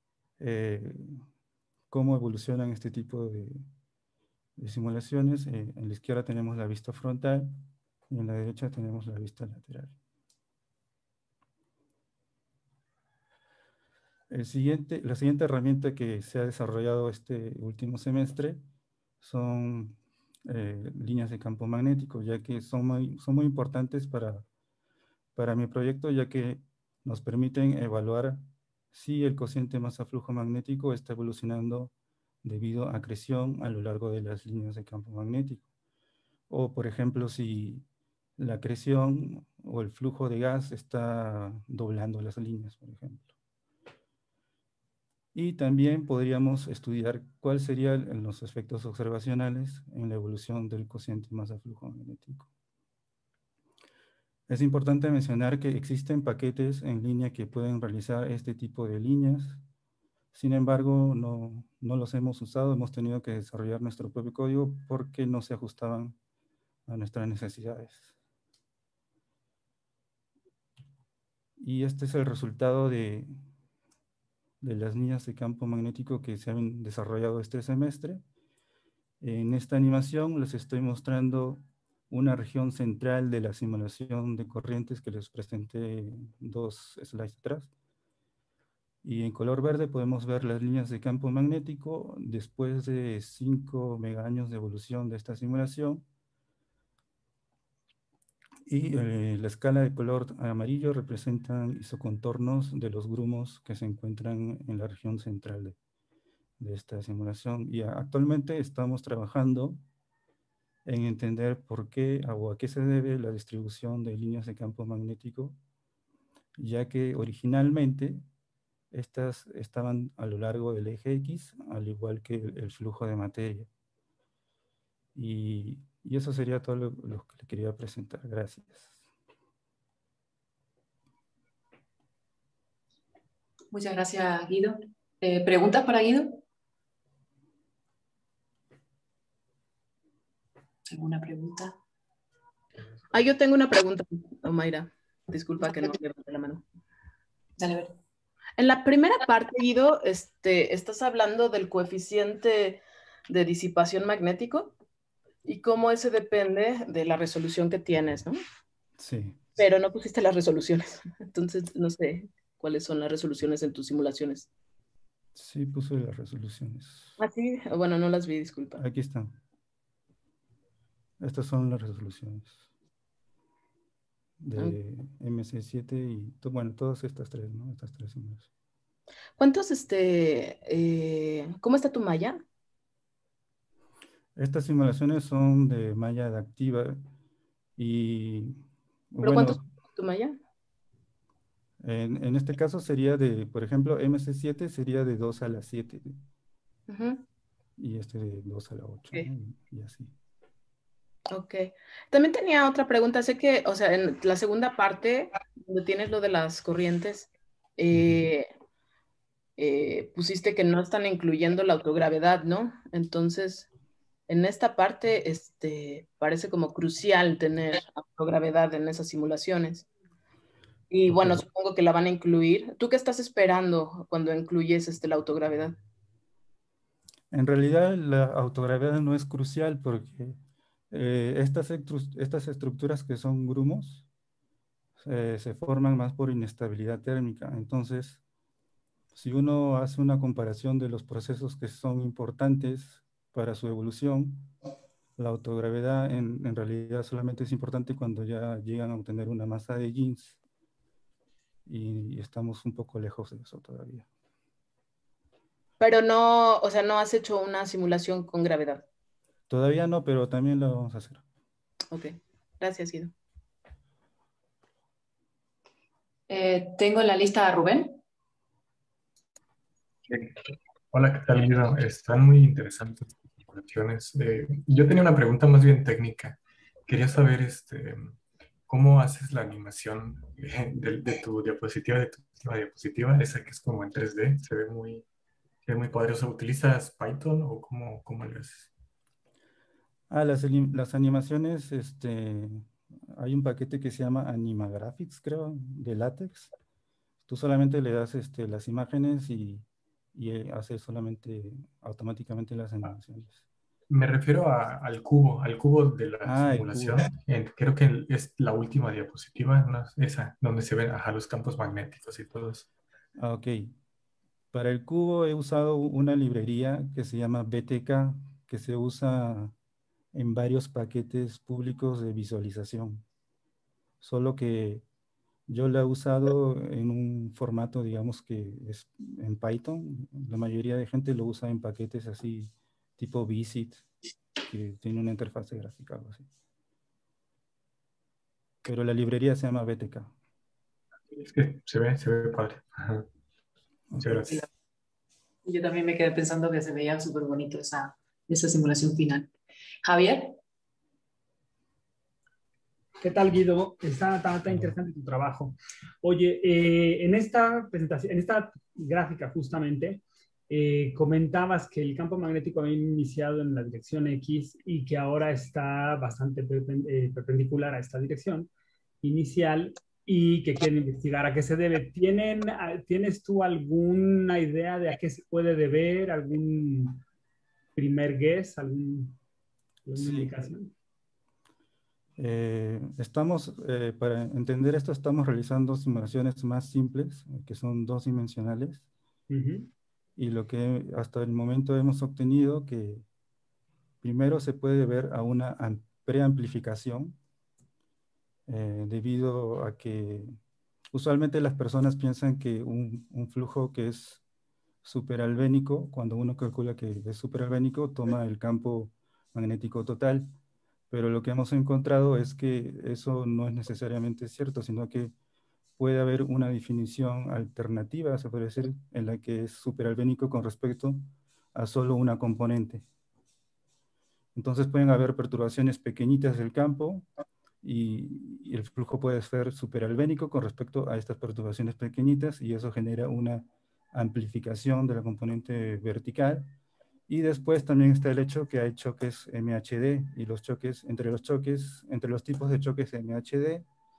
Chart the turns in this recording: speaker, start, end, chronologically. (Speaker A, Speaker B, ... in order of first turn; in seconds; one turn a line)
Speaker A: 0.4-1.2
Speaker A: 1.9-3.6
Speaker A: 4.6-7.5
Speaker A: 8.1-9.9
Speaker A: 14.3-18.6
Speaker A: 19.2-24.4
Speaker A: 25.4-31.9
Speaker A: 32.4-35.6
Speaker A: 36.5-37.9
Speaker A: 38.4-43.3
Speaker A: 45.3-52.5
Speaker A: 54.5-59.6
Speaker A: 60.3-66.2
Speaker A: 66.9-68.1
Speaker A: 71.6-73.4
Speaker A: 74.6-78.2
Speaker A: 79.2-87.7
Speaker A: 89.0-96.0
Speaker A: 98.7-105.8
Speaker A: 106.6-109.8
Speaker A: 110.9-115.6
Speaker A: 116.6-118.2
Speaker A: 118.9-123.7
Speaker A: 125.2-129.0
Speaker B: 133.7-136.4
Speaker B: 140.9-141.8
Speaker C: 143.1-146.7
Speaker B: 147.6-148.0
Speaker C: 148.6-154.8
Speaker C: 155.4-158.4
Speaker A: 159.0-159.5
Speaker C: 159.6-164.5
Speaker A: 165.3-167.2
Speaker C: 167.2-168.8
Speaker A: 168.8-169.4
Speaker A: 171.2-172.6
Speaker A: 174.4-178.5
Speaker C: 179.4-182.4
Speaker A: 184.4-187.0
Speaker A: 187.8-189.6
Speaker C: 189.2-190.4
Speaker A: 191.8-196.2
Speaker C: 196.9-197.2
Speaker A: 197.8-200.1
Speaker C: 201.3-208.5
Speaker C: 209.6-213.7
Speaker C: 214.3-219.9
Speaker C: 220.9-225.8
Speaker A: 227.3-230.4
Speaker A: 230.9-234.1
Speaker A: 235.0-238.2
Speaker A: 239.1-244.5
Speaker A: 245.2-250.4
Speaker A: 251.7-254.1
Speaker C: 255.8-258.9
Speaker A: 259.5-261.2
Speaker C: 261.9-263.1
Speaker B: 266.3-268.0
Speaker D: 270.1-285.1
Speaker D: 285.6-288.7
Speaker A: 290.1-296.5
Speaker A: 297.2-303.4
Speaker D: 303.9-312.7
Speaker A: 306.2-307.1
Speaker A: 313.2-313.8
Speaker A: 314.5-319.5
Speaker A: 320.1-323.0
Speaker A: 324.0-324.8
Speaker A: 325.5-333.9
Speaker A: 334.4-336.3
Speaker A: 338.6-340.1
Speaker D: 341.1-343.1
Speaker D: 344.0-344.4
Speaker B: 344.1-344.5
Speaker B: 345.4-349.3
Speaker B: 349.8-350.4
Speaker E: 353.0-368.5
Speaker E: 369.0-377.0
Speaker E: 377.8-379.2
Speaker E: 379.9-380.7
Speaker A: 380.0-380.4
Speaker A: 382.2-388.9
Speaker E: 389.3-389.7
Speaker A: 390.2-393.1
Speaker A: 394.0-397.2
Speaker A: 398.5-400.4
Speaker A: 400.9-404.2
Speaker A: 404.8-410.3
Speaker A: 410.9-415.1
Speaker A: 415.8-422.9
Speaker A: 424.4-427.1
Speaker A: 427.6-436.5
Speaker A: 437.1-443.6